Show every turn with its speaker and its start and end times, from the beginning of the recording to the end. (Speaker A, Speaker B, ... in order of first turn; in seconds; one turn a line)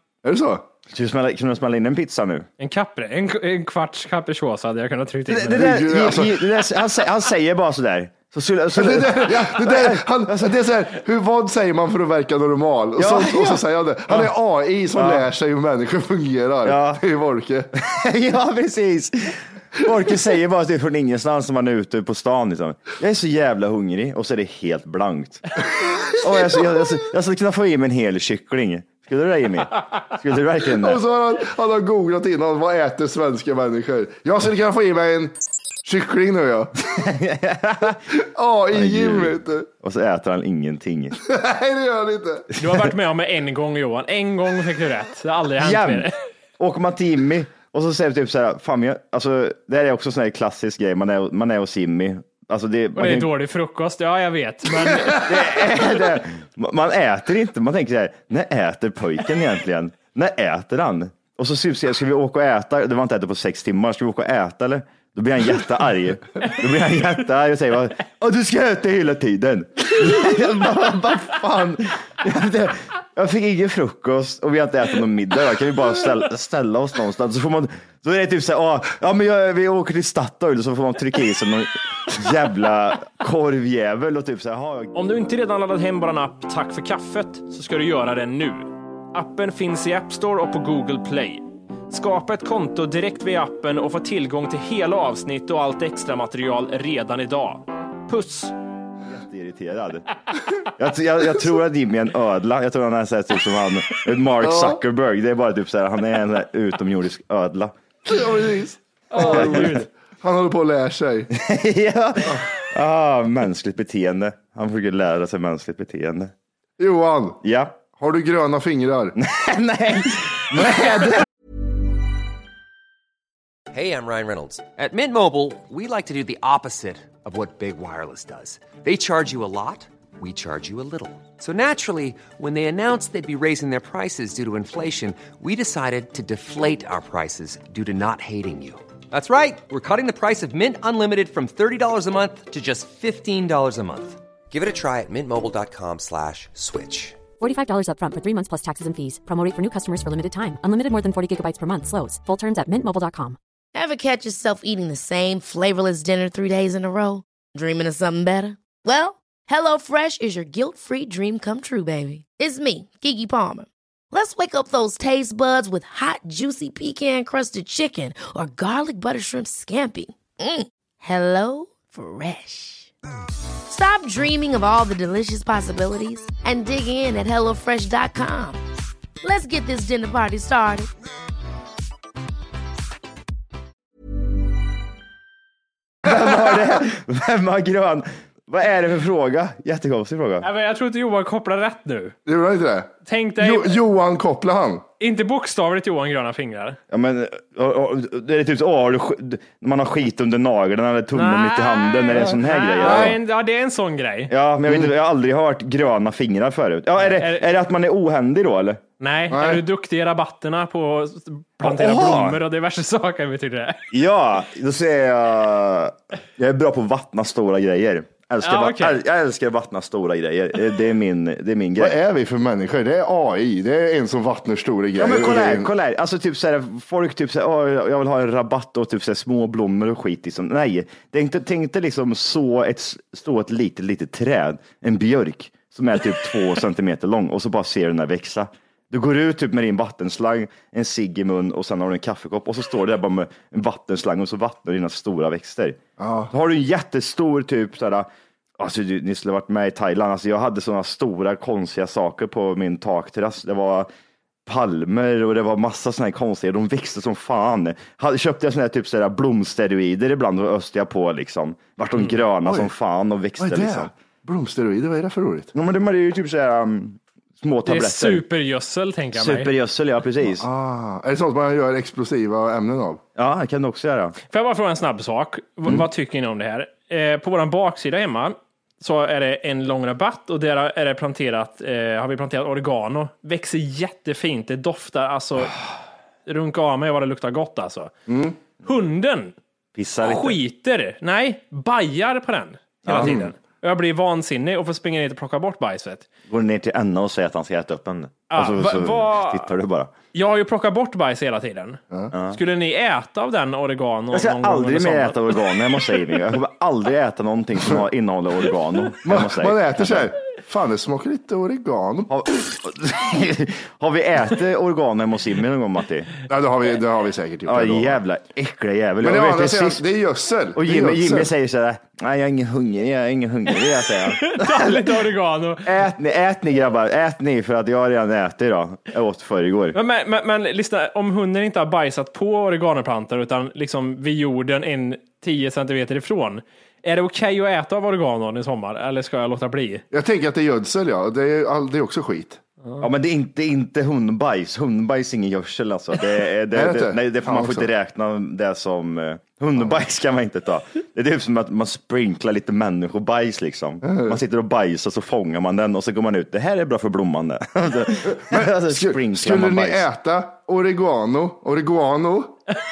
Speaker A: 0.2-0.6
Speaker B: 0.9-2.5
Speaker C: 2.6-5.7
Speaker B: 5.3-10.6
Speaker A: 5.5-6.4
Speaker A: 8.8-17.7
Speaker B: 13.0-14.3
Speaker B: 14.9-15.3
Speaker B: 16.6-17.0
Speaker B: 17.8-25.4
Speaker A: 25.8-26.6
Speaker B: 26.1-31.0
Speaker A: 30.7-35.3
Speaker A: 35.8-36.8
Speaker B: 36.9-38.0
Speaker A: 38.1-39.7
Speaker B: 38.7-41.1
Speaker A: 41.2-42.5
Speaker C: 42.6-46.1
Speaker B: 45.6-46.1
Speaker B: 46.6-53.3
Speaker C: 53.0-55.4
Speaker A: 54.9-55.2
Speaker B: 55.1-85.0
Speaker C: 85.0-98.5
Speaker B: 99.0-100.1
Speaker B: 100.7-107.7
Speaker A: 104.4-104.8
Speaker A: 108.0-111.3
Speaker C: 109.1-109.9
Speaker B: 109.2-109.8
Speaker B: 111.3-116.3
Speaker A: 116.8-117.4
Speaker B: 117.4-117.8
Speaker A: 117.9-119.1
Speaker B: 119.2-121.2
Speaker D: 123.7-147.2
Speaker E: 147.4-153.4
Speaker F: 153.8-172.9
Speaker F: 173.7-178.6
Speaker F: 179.2-180.9
Speaker B: 186.0-190.5
Speaker C: 190.4-192.1
Speaker A: 192.3-194.8
Speaker C: 193.1-193.8
Speaker C: 195.0-196.8
Speaker B: 196.9-203.2
Speaker C: 201.1-204.3
Speaker A: 202.2-203.2
Speaker B: 204.3-208.8
Speaker C: 207.1-207.4
Speaker C: 209.0-213.8
Speaker A: 209.3-209.6
Speaker B: 211.6-212.4
Speaker B: 213.9-222.0
Speaker C: 218.4-219.0
Speaker A: 221.8-225.7
Speaker B: 225.0-245.8
Speaker A: 246.0-246.3
Speaker B: 246.3-248.1
Speaker B: 248.6-253.9
Speaker B: 254.4-263.9
Speaker A: 262.4-262.7
Speaker A: 263.4-265.5
Speaker B: 265.5-268.2
Speaker C: 267.6-269.5
Speaker B: 269.1-270.5
Speaker A: 270.3-273.0
Speaker B: 273.1-274.2
Speaker C: 274.3-285.6
Speaker C: 286.3-287.9
Speaker A: 288.1-288.4
Speaker C: 288.6-289.4
Speaker B: 289.8-290.4
Speaker C: 290.0-296.1
Speaker B: 292.9-293.2
Speaker A: 293.0-293.3
Speaker B: 296.3-299.9
Speaker C: 298.3-299.5
Speaker C: 300.1-301.8
Speaker B: 302.1-302.4
Speaker C: 302.3-305.2
Speaker B: 304.1-310.1
Speaker A: 309.0-312.1
Speaker B: 312.1-316.1
Speaker A: 316.3-318.0
Speaker B: 317.4-319.8
Speaker A: 319.0-321.3
Speaker B: 320.5-325.1
Speaker C: 324.1-325.8
Speaker B: 325.6-329.8
Speaker C: 329.7-339.8
Speaker A: 339.9-342.4
Speaker B: 342.8-359.9
Speaker A: 346.6-347.7
Speaker A: 353.9-354.2
Speaker A: 358.2-362.4